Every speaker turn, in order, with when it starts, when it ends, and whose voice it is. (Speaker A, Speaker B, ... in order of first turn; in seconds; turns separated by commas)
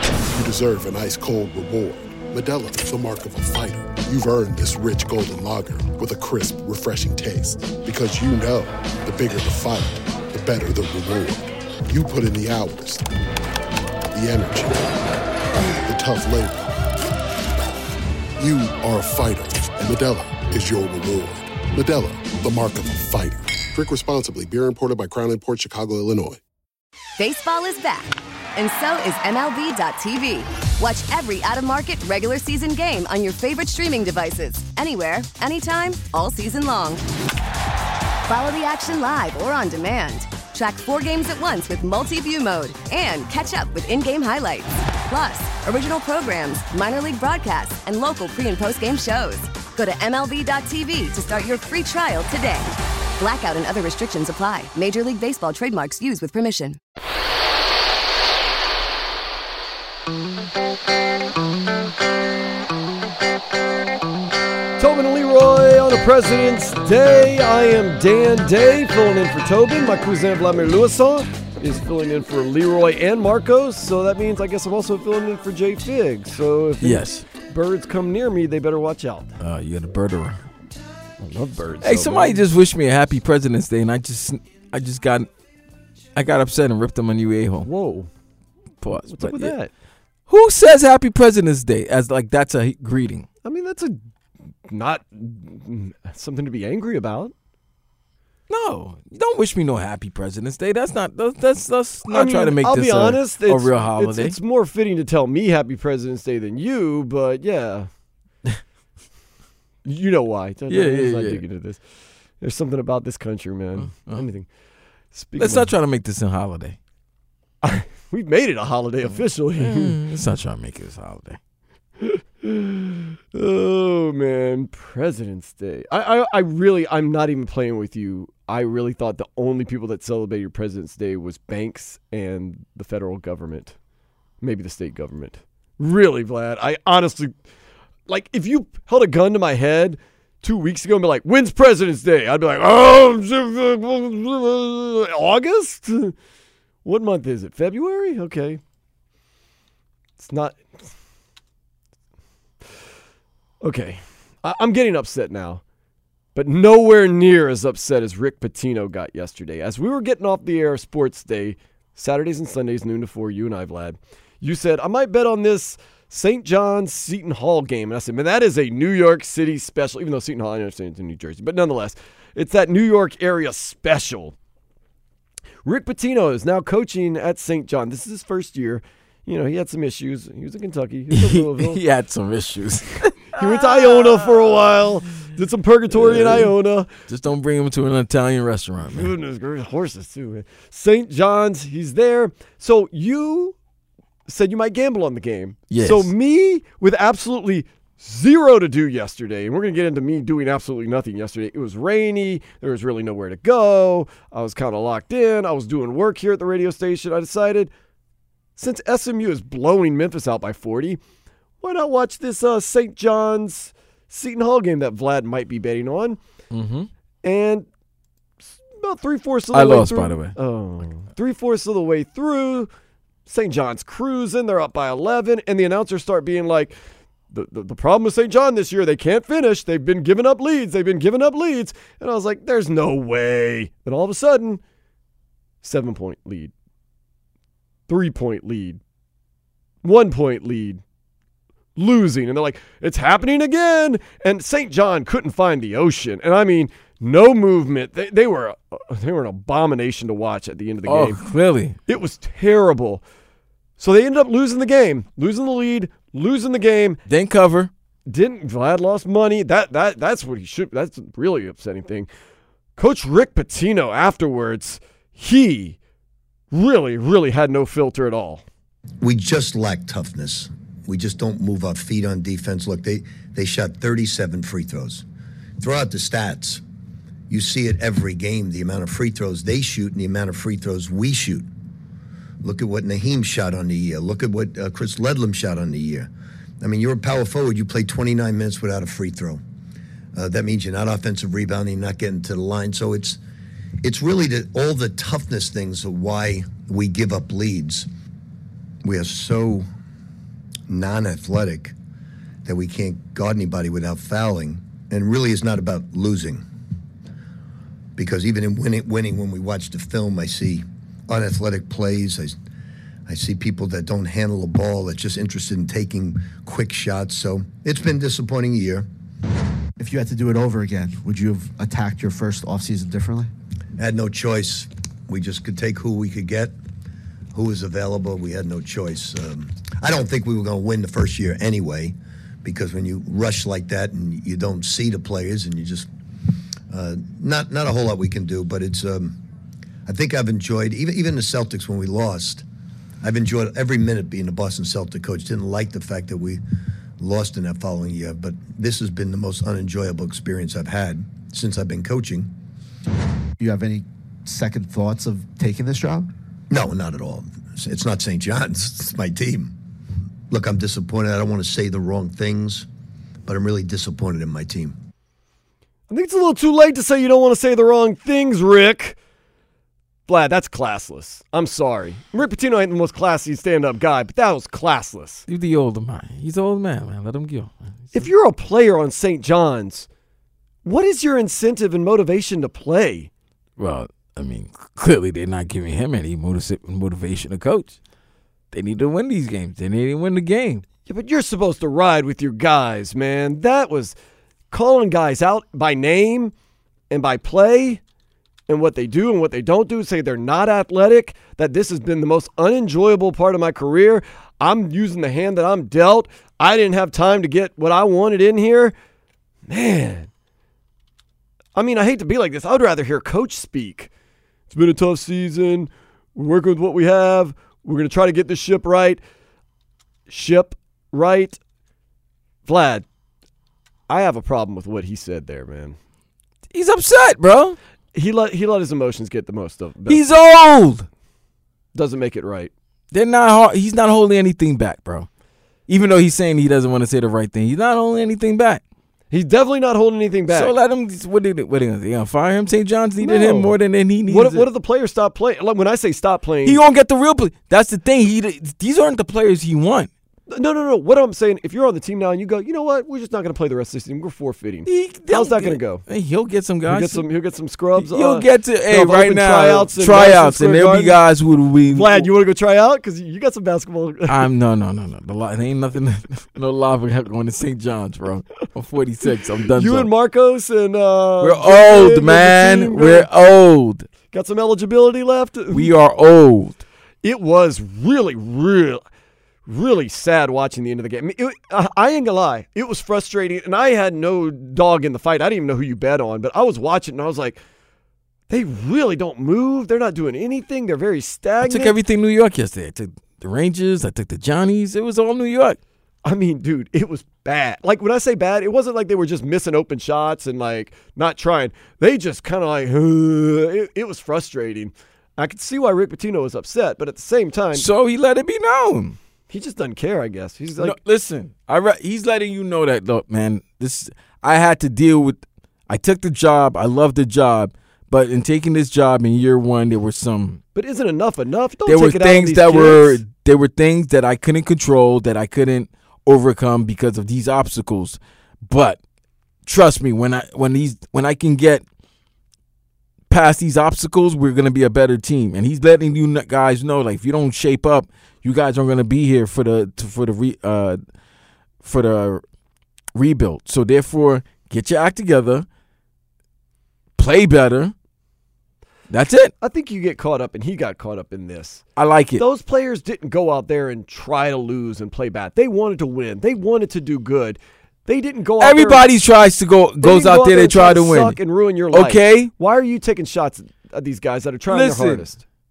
Speaker A: 0.3-13.1, Speaker A: 14.1-14.9, Speaker A: 15.8-16.8, Speaker A: 18.4-26.4, Speaker B: 27.2-37.0, Speaker B: 38.3-56.8, Speaker C: 64.8-79.3, Speaker D: 76.8-77.2, Speaker D: 79.4-80.5, Speaker C: 81.2-82.5, Speaker D: 81.8-85.3, Speaker D: 86.2-87.7, Speaker C: 87.6-88.1, Speaker D: 88.8-89.6, Speaker C: 89.1-89.7, Speaker D: 90.3-93.3, Speaker C: 93.4-94.0, Speaker C: 94.7-97.3, Speaker D: 98.5-104.4, Speaker C: 102.1-107.9, Speaker C: 109.8-111.8, Speaker D: 110.7-111.4, Speaker C: 112.4-114.5, Speaker D: 113.8-114.2, Speaker C: 115.1-115.7, Speaker D: 115.4-116.8, Speaker C: 117.6-120.0, Speaker D: 119.0-121.4, Speaker C: 122.0-133.8, Speaker C: 134.4-137.3, Speaker C: 138.1-146.2, Speaker C: 146.8-148.6, Speaker C: 150.2-150.9, Speaker C: 153.6-155.6, Speaker C: 156.3-174.3, Speaker C: 175.7-181.8, Speaker D: 181.1-184.6, Speaker C: 183.3-186.9, Speaker D: 185.9-186.5, Speaker D: 187.1-189.1, Speaker C: 188.9-193.6, Speaker C: 194.3-207.7, Speaker D: 195.7-196.1, Speaker C: 208.6-211.0, Speaker C: 211.6-216.2, Speaker D: 216.5-216.9, Speaker C: 217.2-217.7, Speaker C: 218.6-222.7, Speaker D: 219.5-220.3, Speaker C: 223.3-226.8, Speaker C: 227.3-234.6, Speaker C: 235.6-236.5, Speaker C: 237.9-238.8, Speaker C: 239.8-240.8, Speaker C: 241.8-251.2, Speaker D: 250.9-251.8, Speaker C: 251.9-253.0, Speaker C: 253.8-257.0, Speaker D: 257.1-257.7, Speaker C: 258.1-262.1, Speaker C: 262.8-265.8, Speaker C: 266.5-268.4, Speaker E: 269.0-275.0, Speaker E: 275.6-276.6, Speaker E: 277.3-281.5, Speaker E: 282.4-286.1, Speaker E: 286.6-289.4, Speaker E: 290.2-293.2, Speaker E: 293.8-297.9, Speaker E: 298.8-299.7, Speaker E: 300.7-301.7, Speaker E: 302.5-306.4, Speaker E: 308.0-312.4, Speaker E: 313.1-318.9, Speaker F: 319.8-323.3, Speaker E: 323.8-326.5, Speaker E: 327.3-335.9, Speaker E: 336.7-339.2, Speaker E: 339.9-342.4, Speaker E: 343.0-346.4, Speaker E: 347.0-352.3, Speaker F: 353.4-356.1, Speaker E: 356.5-359.6, Speaker E: 360.3-362.7, Speaker E: 363.3-364.8, Speaker C: 365.9-369.0, Speaker C: 370.1-375.3, Speaker D: 375.3-378.1, Speaker C: 377.9-379.9, Speaker C: 380.6-383.1, Speaker D: 383.6-387.8, Speaker D: 388.5-390.6, Speaker C: 390.9-393.9, Speaker C: 394.5-396.3, Speaker C: 396.9-397.8, Speaker C: 398.5-408.8, Speaker C: 409.5-410.1, Speaker C: 411.6-413.9, Speaker C: 414.5-419.0, Speaker C: 420.1-421.4, Speaker C: 422.5-422.9, Speaker C: 423.9-425.8, Speaker D: 426.5-427.6, Speaker C: 427.9-430.1, Speaker D: 429.9-430.9, Speaker C: 431.7-432.5, Speaker D: 432.9-435.1, Speaker D: 435.7-438.6, Speaker C: 439.1-440.5, Speaker D: 440.3-444.5, Speaker C: 443.0-443.6, Speaker C: 444.1-446.6, Speaker D: 446.4-449.9, Speaker C: 450.3-455.8, Speaker D: 454.7-457.0, Speaker C: 456.7-461.0, Speaker D: 457.8-462.1, Speaker C: 461.7-464.2, Speaker D: 464.1-469.9, Speaker C: 469.5-473.1, Speaker D: 471.2-473.9, Speaker C: 474.1-475.7, Speaker D: 475.5-476.6, Speaker C: 477.0-478.8, Speaker C: 479.5-487.4, Speaker C: 488.3-491.8, Speaker D: 491.4-495.6, Speaker C: 496.1-507.7, Speaker D: 507.5-509.0, Speaker C: 509.3-510.8, Speaker D: 510.6-520.4, Speaker C: 520.5-523.0, Speaker D: 521.7-528.8, Speaker D: 529.5-531.6, Speaker D: 533.1-540.8, Speaker D: 541.6-542.2, Speaker D: 543.0-545.5, Speaker D: 547.0-547.7, Speaker D: 548.9-549.3, Speaker C: 549.4-551.6, Speaker D: 551.8-552.2, Speaker C: 552.2-558.9, Speaker D: 558.4-561.2, Speaker C: 559.8-565.2, Speaker D: 561.7-562.3, Speaker D: 564.5-565.1